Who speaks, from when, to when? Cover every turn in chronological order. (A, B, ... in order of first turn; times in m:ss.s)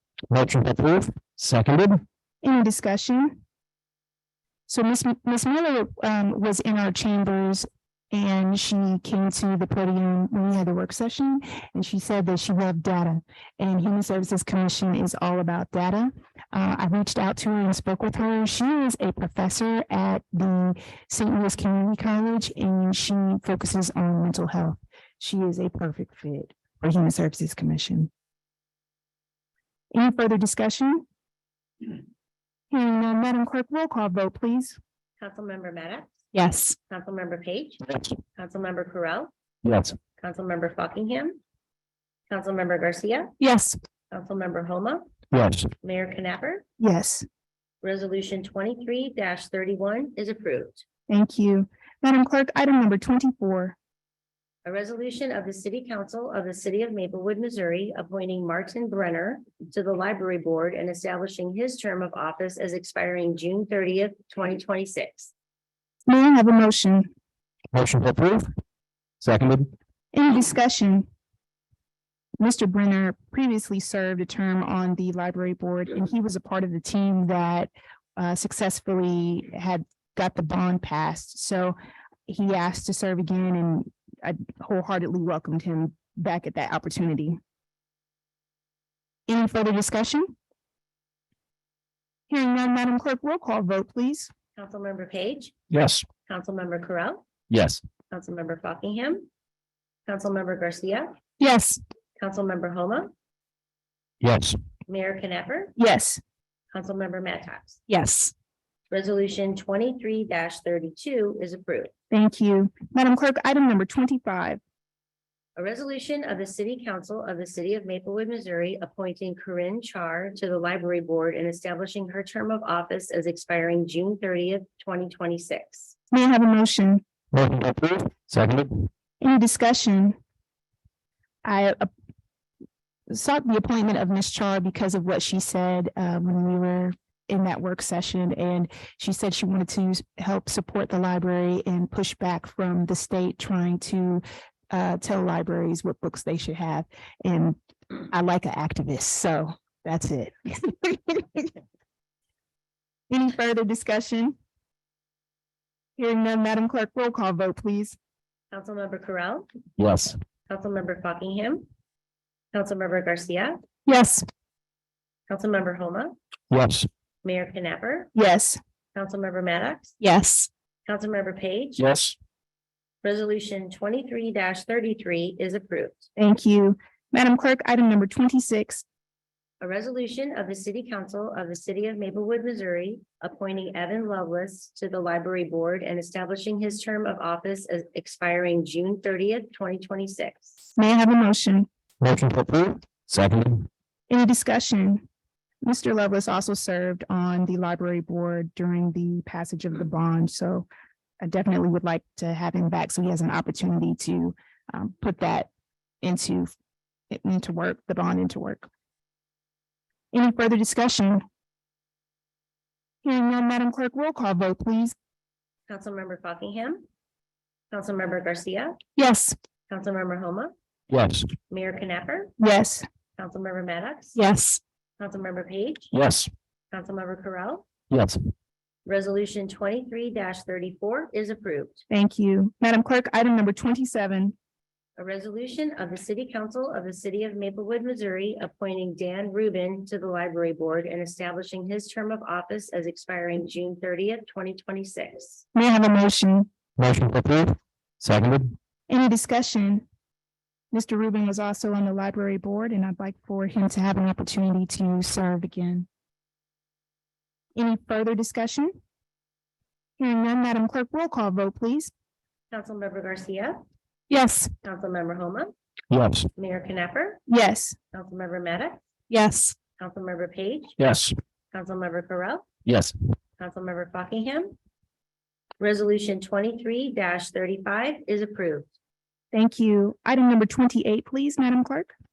0:00.3-0:02.0 A
0:02.4-0:03.4 B
0:04.7-0:28.1 B
0:29.9-0:31.0 B
0:32.7-0:34.8 B
0:35.2-0:36.1 C
0:36.3-0:36.7 B
0:36.9-0:37.8 C
0:37.9-0:38.2 A
0:38.4-0:39.3 C
0:39.6-0:40.0 A
0:40.2-0:41.4 C
0:42.3-0:43.3 C
0:43.4-0:43.8 B
0:44.1-0:45.1 C
0:45.3-0:45.7 A
0:45.8-0:46.6 C
0:46.8-0:47.2 B
0:47.8-0:50.8 C
0:51.1-0:53.8 B
0:54.6-1:05.3 C
1:06.1-1:07.1 B
1:07.7-1:08.5 A
1:09.2-1:09.7 A
1:10.1-1:11.0 B
1:12.4-1:21.8 B
1:22.3-1:27.4 B
1:29.3-1:30.3 B
1:32.3-1:34.3 B
1:34.6-1:35.5 C
1:35.7-1:36.0 A
1:36.3-1:37.2 C
1:37.5-1:37.8 A
1:38.1-1:39.3 C
1:40.0-1:41.1 C
1:41.4-1:41.8 B
1:42.2-1:43.1 C
1:44.2-1:44.6 A
1:44.9-1:45.7 C
1:45.8-1:46.2 B
1:46.7-1:47.8 C
1:47.9-1:48.3 B
1:48.9-1:51.9 C
1:52.1-1:54.6 B
1:55.6-2:05.9 C
2:06.1-2:07.0 B
2:07.3-2:08.9 A
2:09.2-2:10.2 B
2:11.4-2:11.9 B
2:13.1-2:27.6 B
2:28.1-2:31.5 B
2:33.1-2:34.4 B
2:36.0-2:38.0 B
2:38.5-2:39.5 C
2:39.8-2:40.2 A
2:40.5-2:41.7 C
2:42.5-2:43.6 C
2:43.9-2:44.2 B
2:45.3-2:46.1 C
2:46.5-2:46.9 A
2:47.2-2:48.1 C
2:48.1-2:48.6 B
2:48.9-2:49.9 C
2:50.0-2:50.5 B
2:50.8-2:51.8 C
2:51.8-2:52.2 A
2:53.0-2:56.0 C
2:56.2-2:58.8 B
2:59.6-3:10.6 C
3:10.8-3:11.7 B
3:12.0-3:13.7 A
3:14.1-3:15.0 B
3:15.6-3:20.6 B
3:21.2-3:25.5 B
3:26.0-3:26.5 B
3:27.1-3:28.7 B
3:30.1-3:31.2 B
3:33.0-3:34.9 B
3:35.7-3:36.8 C
3:37.7-3:38.8 C
3:39.0-3:39.3 B
3:39.7-3:40.5 C
3:40.9-3:41.3 A
3:41.5-3:42.3 C
3:42.4-3:42.8 B
3:43.2-3:44.2 C
3:44.2-3:44.6 B
3:45.0-3:45.9 C
3:45.9-3:46.3 A
3:46.7-3:47.7 C
3:47.9-3:48.2 A
3:48.8-3:51.8 C
3:51.9-3:54.3 B
3:55.0-4:05.4 C
4:05.5-4:06.5 B
4:06.8-4:08.6 A
4:08.9-4:09.8 B
4:10.7-4:15.9 B
4:17.5-4:18.7 B
4:20.0-4:21.9 B
4:22.5-4:23.6 C
4:24.1-4:24.5 B
4:24.6-4:25.5 C
4:25.9-4:26.3 A
4:26.4-4:27.2 C
4:27.3-4:27.8 B
4:27.9-4:28.8 C
4:29.1-4:29.5 B
4:29.8-4:30.8 C
4:30.8-4:31.1 A
4:31.5-4:32.4 C
4:32.6-4:32.9 A
4:33.4-4:34.5 C
4:35.6-4:38.7 C
4:39.3-4:41.9 B